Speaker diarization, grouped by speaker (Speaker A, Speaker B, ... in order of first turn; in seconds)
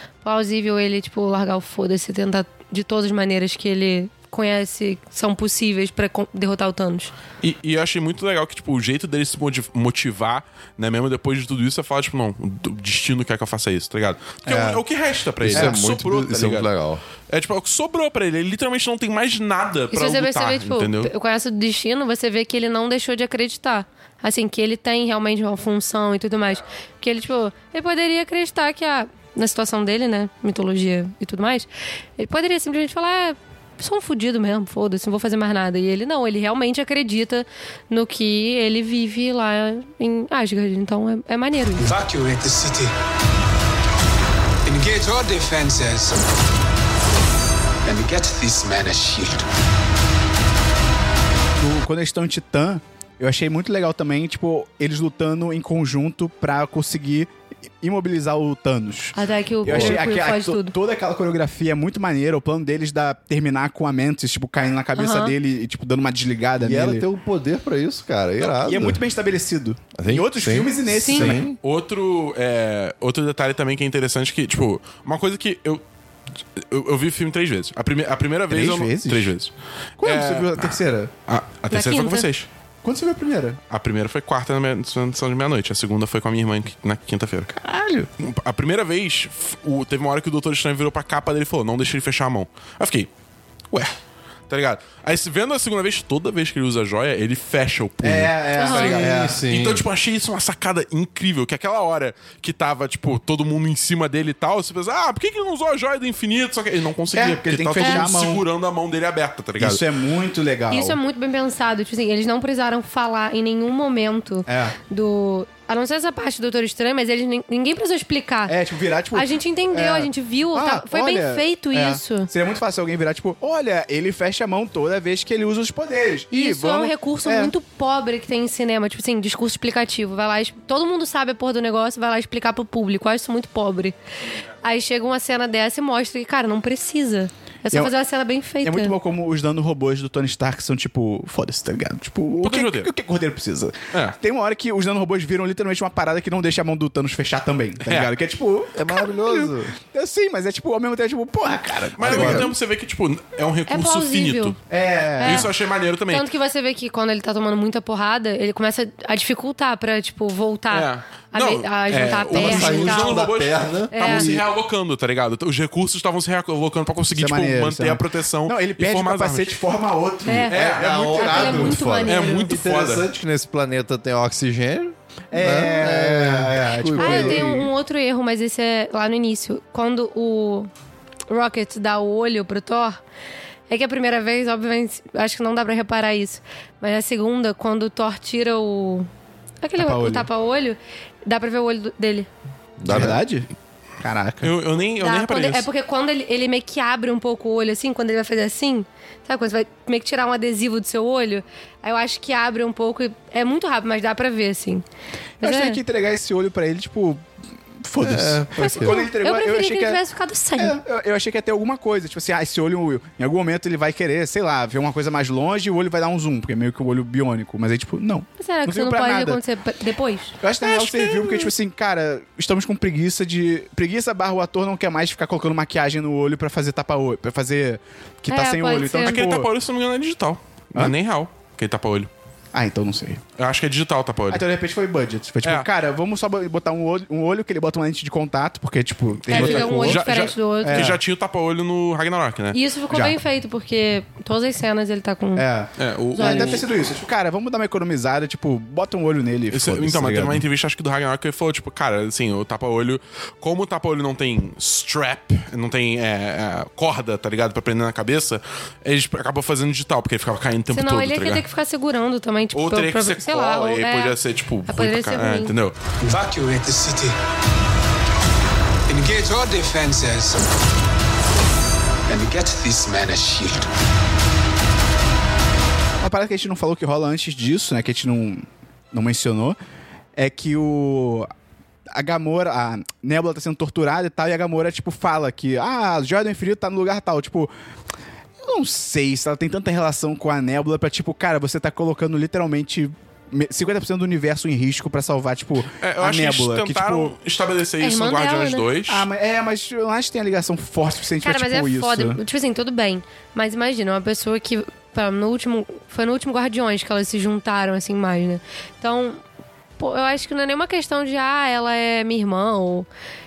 Speaker A: 0.2-7.1, 19.9-41.9, 59.1-60.7, 65.0-65.3, 70.9-71.3, 81.7-82.3, 98.5-99.0, 107.8-108.0, 110.7-118.6, 119.1-122.3, 126.3-134.0, 134.6-138.9, 153.7-154.6, 155.2-155.5, 156.1-163.2, 163.9-164.3, 170.3-170.6, 171.1-172.5, 177.0-180.7, 181.3-183.0, 183.7-189.1, 189.6-192.3, 195.0-204.8, 205.4-205.8, 208.6-210.8, 218.4-221.5, 228.3-229.2, 239.3-240.9, 242.5-245.5, 246.2-246.6, 260.7-264.1, 264.7-265.5, 297.8-298.7, 301.2-309.2, 309.8-312.9
Speaker B: 7.4-16.7, 17.3-21.1, 71.6-75.8, 76.6-82.5, 83.7-87.5, 88.2-93.1, 94.5-109.8, 142.4-142.9, 147.8-148.1, 152.0-154.6, 155.2-156.3, 160.7-169.6, 170.5-173.1, 194.4-195.7, 220.7-221.0, 229.0-232.1, 233.4-234.4, 235.4-235.7, 239.2-242.6, 245.8-246.7, 249.5-261.4, 262.5-265.8, 295.8-299.1
Speaker C: 14.5-14.8, 15.5-15.8, 51.6-67.0, 68.4-71.4, 78.5-79.3, 80.0-81.1, 82.8-83.6, 87.5-88.1, 98.0-99.4, 107.1-108.4, 109.6-111.0, 114.5-114.8, 118.5-127.5, 138.6-152.5, 154.7-155.5, 167.1-171.7, 175.3-177.7, 189.8-190.3, 192.9-193.5, 194.0-194.5, 205.4-207.2, 207.8-210.0, 210.6-219.4, 220.4-229.5, 232.5-233.2, 234.3-240.1, 240.6-241.0, 242.9-243.2, 245.4-250.4, 276.0-279.6, 280.2-281.3, 281.9-287.5, 288.4-297.1, 298.9-302.2
Speaker D: 15.4-17.0, 59.7-60.0, 66.6-69.0, 70.0-71.6, 98.9-99.8, 148.8-149.7, 152.0-152.5, 162.3-164.4, 170.5-177.7, 192.8-193.2, 208.0-209.0
Speaker E: 41.8-42.9, 44.6-46.3, 47.9-49.5, 266.0-267.2, 268.9-270.6, 272.1-273.7